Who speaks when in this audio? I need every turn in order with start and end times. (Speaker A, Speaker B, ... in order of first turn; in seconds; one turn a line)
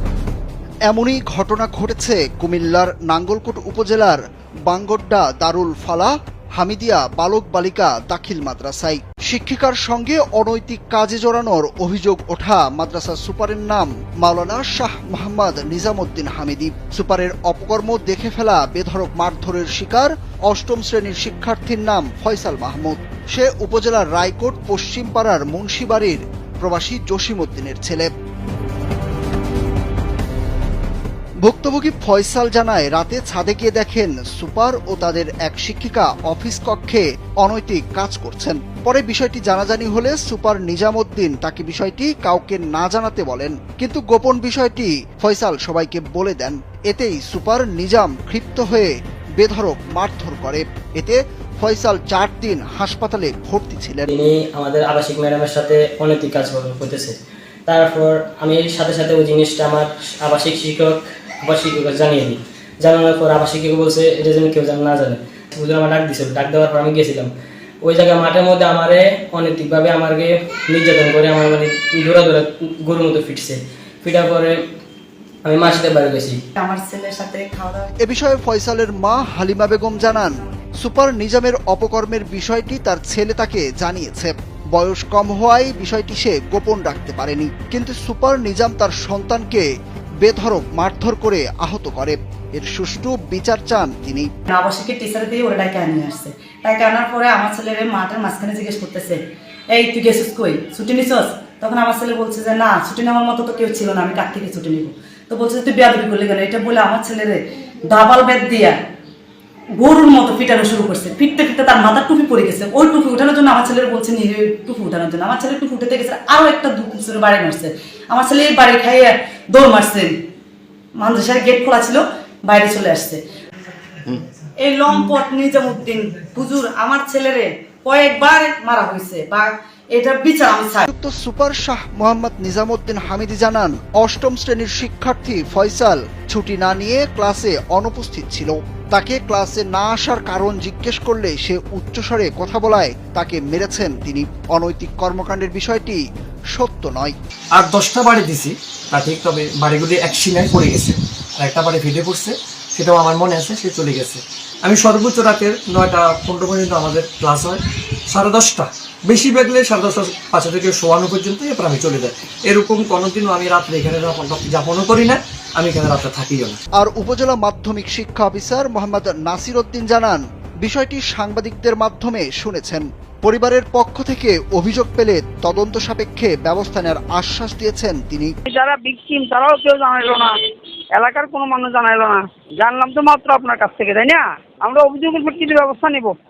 Speaker A: 0.9-28.1
Speaker A: 31.4-54.1
Speaker B: 54.1-57.1
Speaker B: 57.7-67.3
Speaker B: 67.8-74.6
Speaker B: 75.4-76.4
Speaker C: 76.6-77.9
Speaker A: 78.0-89.7
Speaker A: 90.2-94.3
Speaker C: 94.5-99.2
Speaker C: 99.7-108.8
Speaker C: 109.8-120.1
Speaker C: 121.0-123.2
Speaker C: 124.6-130.8
Speaker A: 130.8-147.1
Speaker D: 147.5-166.6
Speaker A: 166.8-178.3
Speaker E: 178.5-180.4
Speaker E: 181.0-186.1